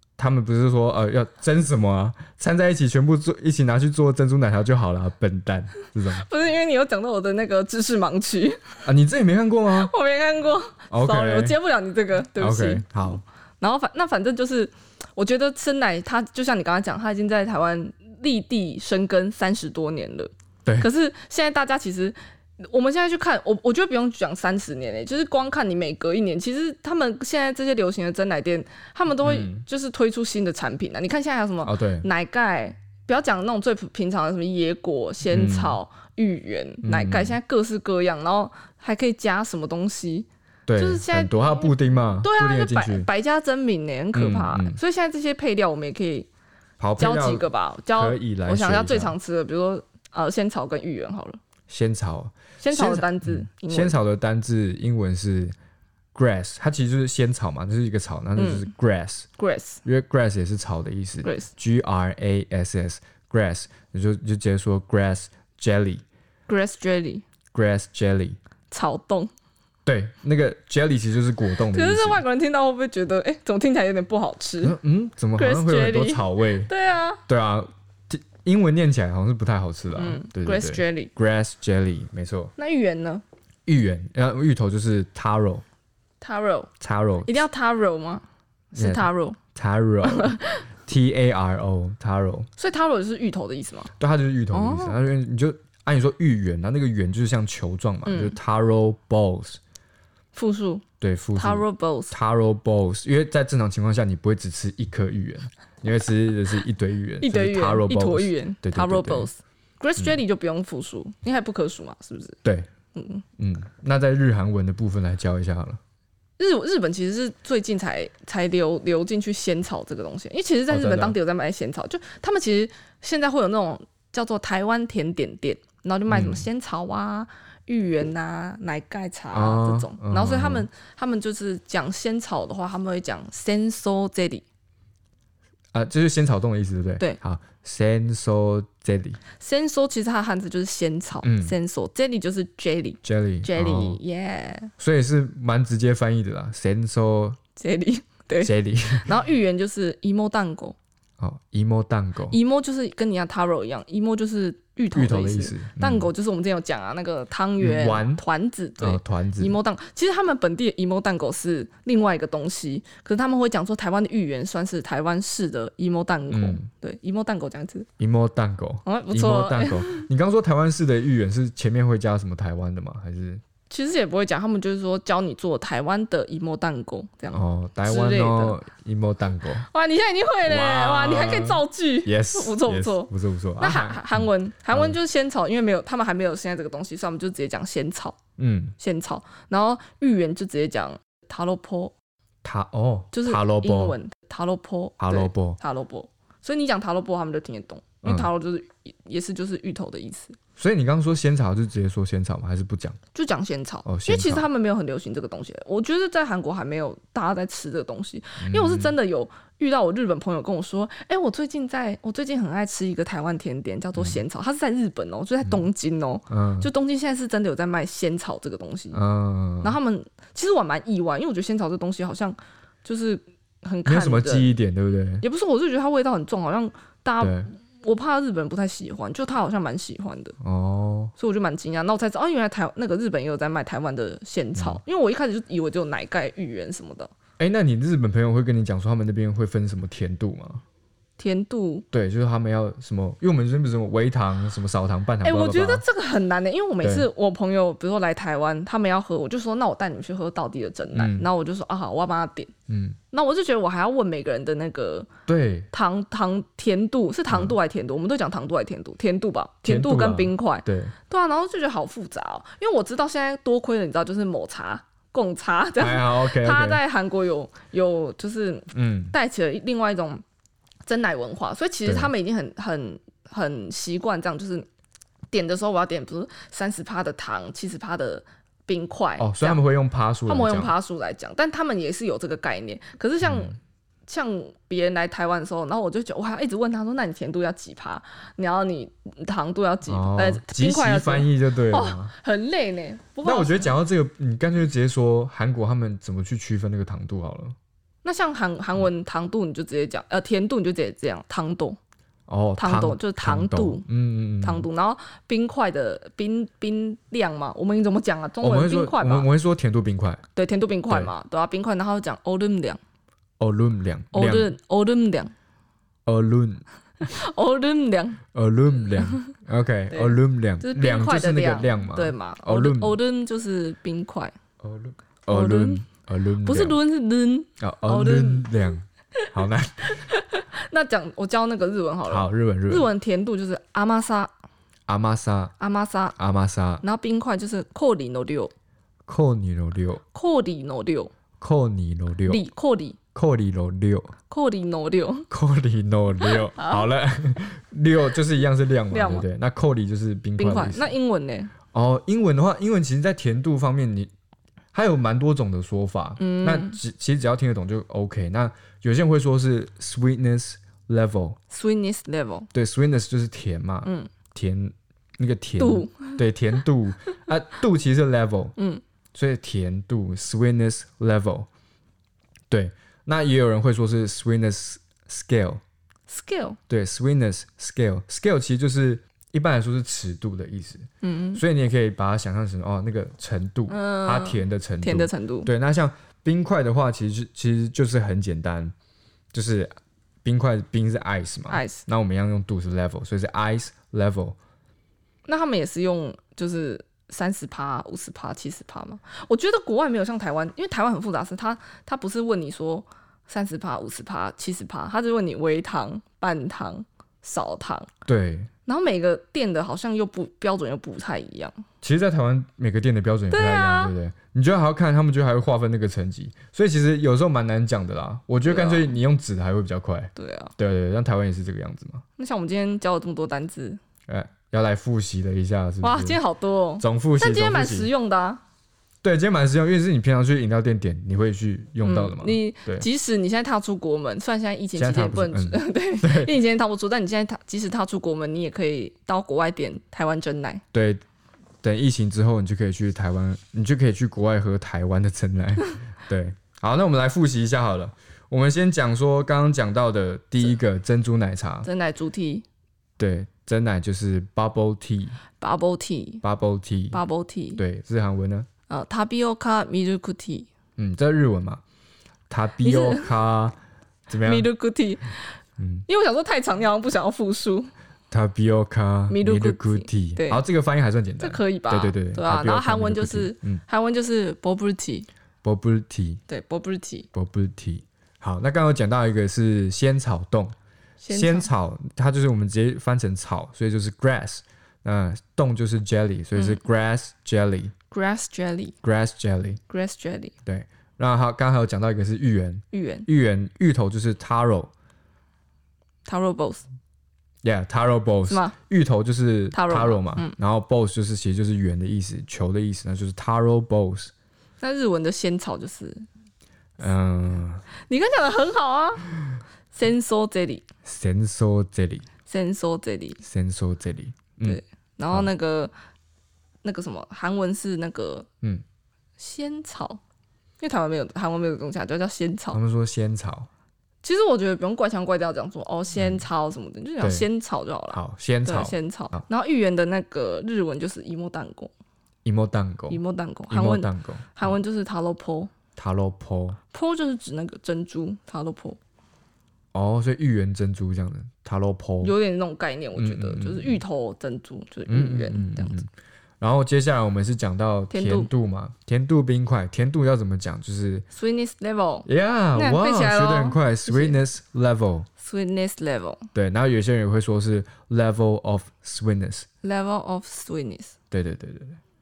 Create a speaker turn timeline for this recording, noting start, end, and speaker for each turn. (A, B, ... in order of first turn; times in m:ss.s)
0:00.2-0:06.2 A
0:06.1-0:08.6 B
0:08.8-0:09.9 A
0:09.7-0:46.3 B
0:10.9-0:11.6 A
0:12.3-0:13.2 A
0:29.2-0:29.6 A
0:31.6-0:32.1 A
0:35.2-0:35.8 A
0:36.8-0:37.4 A
0:40.7-0:43.1 A
0:44.1-0:44.8 A
0:46.8-0:49.1 A
0:47.0-0:51.4 B
0:51.7-0:55.5 A
0:52.6-0:54.0 B
0:56.1-0:59.3 A
0:58.4-0:58.7 B
0:59.4-0:59.8 B
0:59.8-1:06.0 A
1:01.2-1:01.5 B
1:06.5-1:07.2 B
1:07.5-1:08.4 A
1:08.7-1:09.3 B
1:09.8-1:12.2 A
1:11.7-1:14.8 B
1:14.6-1:16.7 A
1:15.4-1:17.2 B
1:17.3-1:22.5 A
1:19.9-1:21.1 B
1:22.6-1:23.2 B
1:23.6-1:25.6 A
1:26.2-1:26.7 B
1:26.8-1:27.4 A
1:27.2-1:29.4 B
1:28.7-1:32.5 A
1:30.0-1:30.6 B
1:32.6-1:33.9 B
1:34.0-1:39.6 A
1:34.5-1:35.0 B
1:38.0-1:38.4 B
1:40.3-1:40.8 B
1:41.0-1:49.3 A
1:41.3-1:42.1 B
1:47.2-1:52.4 B
1:52.9-1:53.2 B
1:53.4-1:55.8 A
1:56.4-2:14.4 B
2:00.7-2:01.2 A
2:06.1-2:06.5 A
2:09.3-2:10.7 A
2:15.7-2:19.2 A
2:19.4-2:24.7 B
2:21.2-2:21.5 A
2:23.0-2:24.0 A
2:24.8-2:27.4 A
2:27.6-2:30.8 B
2:28.4-2:29.2 A
2:31.2-2:32.4 A
2:32.3-2:47.9 B
2:34.9-2:36.1 A
2:37.6-2:38.2 A
2:38.8-2:39.6 A
2:46.3-2:46.6 A
2:48.0-2:53.4 A
2:48.8-2:50.1 B
2:53.7-2:58.6 B
2:57.3-2:59.6 A
2:59.6-3:08.2 B
3:00.4-3:05.0 A
3:08.4-3:08.7 A
3:08.8-3:11.9 B
3:12.4-3:14.0 A
3:13.1-3:20.4 B
3:15.0-3:15.6 A
3:18.0-3:18.3 A
3:20.6-3:23.0 A
3:23.1-3:39.0 B
3:23.8-3:24.5 A
3:28.4-3:28.9 A
3:34.0-3:34.2 A
3:36.3-3:36.7 A
3:38.9-3:39.8 A
3:39.6-3:44.5 B
3:43.8-3:45.2 A
3:45.2-3:50.4 B
3:47.2-3:47.5 A
3:50.4-3:51.1 A
3:51.2-3:57.1 B
3:54.5-3:54.8 A
3:57.4-4:00.6 A
4:01.2-4:01.8 B
4:01.9-4:05.8 A
4:05.2-4:12.5 B
4:06.8-4:07.1 A
4:10.9-4:11.3 A
4:12.7-4:13.0 A
4:13.1-4:15.1 B
4:15.3-4:15.7 A
4:15.7-4:30.2 B
4:17.3-4:17.6 A
4:19.6-4:20.9 A
4:25.8-4:26.8 A
4:28.7-4:29.1 A
4:30.8-4:34.7 B
4:31.8-4:32.1 A
4:35.3-4:39.6 B
4:39.2-4:40.7 A
4:40.2-4:53.7 B
4:43.2-4:43.5 A
4:49.8-4:52.1 A
4:53.2-4:57.5 A
4:58.0-5:01.8 B
5:02.3-5:04.7 A
5:02.6-5:03.8 B
5:04.4-5:09.3 B
5:08.4-5:10.2 A
5:10.3-5:12.8 B
5:13.4-5:14.5 A
5:14.1-5:15.3 B
5:16.0-5:16.6 A
5:17.0-5:18.2 B
5:18.3-5:23.0 A
5:18.8-5:19.1 B
5:19.9-5:24.3 B
5:24.6-5:26.8 A
5:25.3-5:25.9 B
5:26.4-5:28.5 B
5:27.6-5:30.0 A
5:29.4-5:34.3 B
5:32.1-5:32.9 A
5:34.9-5:35.5 A
5:35.6-5:36.2 B
5:36.2-5:36.8 A
5:36.8-5:38.5 B
5:39.1-5:40.0 A
5:40.1-5:41.1 B
5:41.4-5:42.4 A
5:42.2-5:43.0 B
5:43.1-5:44.1 A
5:44.3-5:45.3 B
5:45.3-5:50.9 A
5:46.2-5:46.9 B
5:48.9-5:49.2 B
5:50.4-5:51.5 B
5:51.7-5:54.1 A
5:54.7-6:01.4 A
5:56.2-5:56.8 B
6:01.5-6:02.5 B
6:02.5-6:08.5 A
6:03.8-6:04.1 B
6:05.6-6:06.2 B
6:08.6-6:08.8 B
6:09.1-6:11.5 A
6:12.5-6:15.6 A
6:16.1-6:16.6 B
6:16.7-6:28.7 A
6:21.0-6:21.4 B
6:23.7-6:25.5 B
6:29.3-6:34.4 A
6:31.5-6:31.8 B
6:35.2-6:47.9 B
6:48.1-6:48.5 A
6:48.6-6:51.5 B
6:51.8-7:02.0 A
6:53.3-6:53.9 B
6:58.4-6:59.0 B
7:00.2-7:00.5 B
7:02.2-7:03.8 B
7:04.1-7:06.2 A
7:05.8-7:08.4 B
7:06.8-7:07.9 A
7:09.0-7:12.9 A
7:11.8-7:20.6 B
7:14.7-7:16.4 A
7:20.7-7:21.0 A
7:21.6-7:31.7 A
7:31.6-7:32.4 B
7:33.0-7:35.2 A
7:35.4-7:36.2 B
7:36.2-7:37.0 A
7:36.9-7:37.6 B
7:37.6-7:38.5 A
7:38.7-7:40.5 B
7:40.8-7:41.6 A
7:42.3-7:43.6 A
7:42.6-7:43.1 B
7:44.1-7:44.5 A
7:44.2-7:45.3 B
7:45.6-7:45.8 A
7:45.9-7:47.7 B
7:48.1-7:53.6 A
7:49.1-7:50.4 B
7:51.2-7:55.1 B
7:55.4-7:56.2 A
7:56.3-7:57.1 B
7:57.1-8:00.5 A
8:01.0-8:01.5 B
8:01.1-8:07.7 A
8:07.9-8:08.7 B
8:08.8-8:09.6 A
8:09.7-8:10.3 B
8:10.4-8:14.7 A
8:12.7-8:13.1 B
8:16.0-8:16.6 B
8:17.4-8:24.1 A
8:18.3-8:18.5 B
8:19.5-8:20.3 B
8:24.6-8:26.0 B
8:26.8-8:27.6 A
8:27.8-8:29.1 B
8:29.7-8:30.6 B
8:30.8-8:32.1 A
8:32.2-8:33.2 B
8:33.2-8:35.3 A
8:34.4-8:35.7 B
8:36.6-8:38.3 B
8:39.2-8:40.0 B
8:40.6-8:42.6 B
8:42.5-8:43.5 A
8:44.0-8:51.7 B
8:46.0-8:46.2 A
8:47.0-8:47.3 A
8:47.9-8:49.2 A
8:52.2-8:54.6 A
8:52.9-8:55.5 B
8:55.8-8:56.6 A
8:56.7-8:58.8 B
8:59.7-9:02.1 A
9:02.0-9:05.8 B
9:03.0-9:03.8 A
9:04.9-9:11.0 A
9:07.9-9:08.3 B
9:11.1-9:14.2 B
9:12.0-9:15.1 A
9:15.2-9:16.2 B
9:16.3-9:19.5 A
9:19.6-9:20.9 B
9:21.1-9:21.8 A